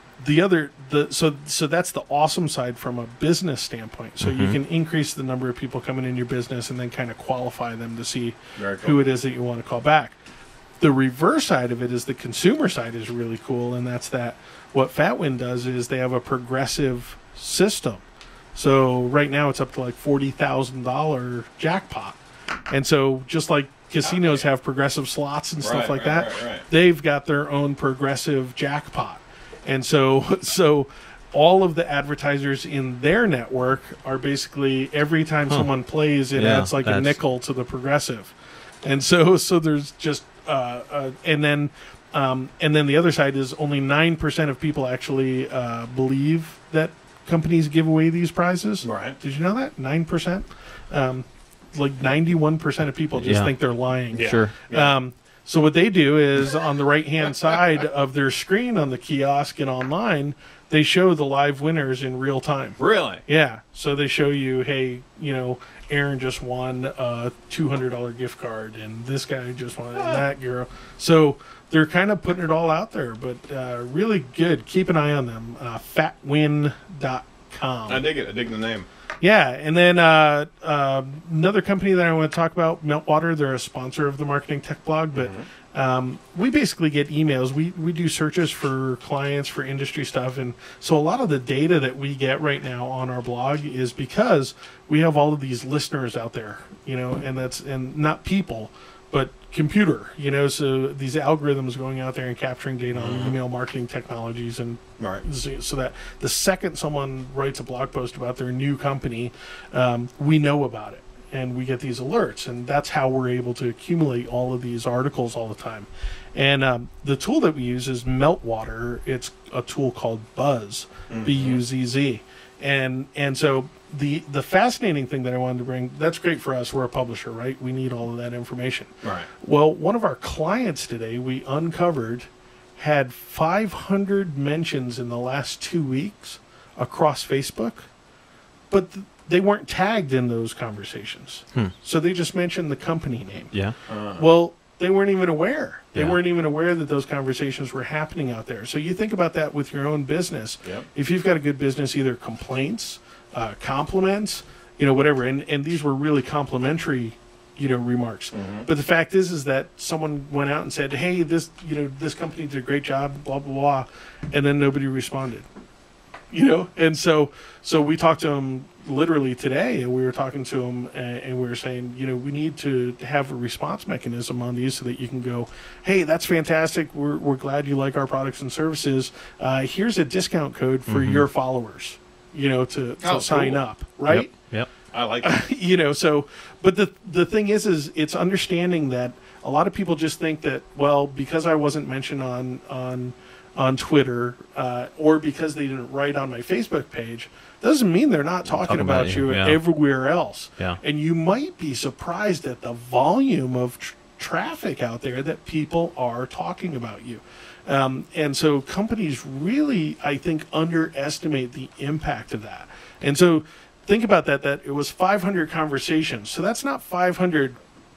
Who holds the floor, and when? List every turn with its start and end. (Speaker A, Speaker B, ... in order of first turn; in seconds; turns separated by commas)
Speaker A: 0.2-10.2, Speaker B: 4.2-4.6, Speaker C: 8.6-9.0, Speaker A: 10.8-18.0, Speaker A: 18.6-78.1, Speaker C: 24.0-24.5, Speaker C: 25.6-26.7, Speaker B: 36.3-37.2, Speaker C: 48.8-49.2, Speaker B: 53.2-53.5, Speaker C: 54.1-55.0, Speaker B: 54.2-54.5, Speaker C: 62.8-63.2, Speaker C: 70.0-70.2, Speaker C: 77.9-78.9, Speaker A: 79.2-137.9, Speaker C: 85.1-85.5, Speaker C: 102.9-103.4, Speaker C: 105.0-105.2, Speaker C: 121.1-121.6, Speaker C: 129.0-129.3, Speaker A: 138.7-143.5, Speaker C: 143.9-144.2, Speaker A: 144.1-165.5, Speaker C: 158.3-158.7, Speaker A: 166.3-184.3, Speaker B: 180.9-181.2, Speaker C: 183.0-183.6, Speaker B: 184.1-184.7, Speaker C: 184.9-185.4, Speaker A: 185.2-217.6, Speaker B: 198.5-199.6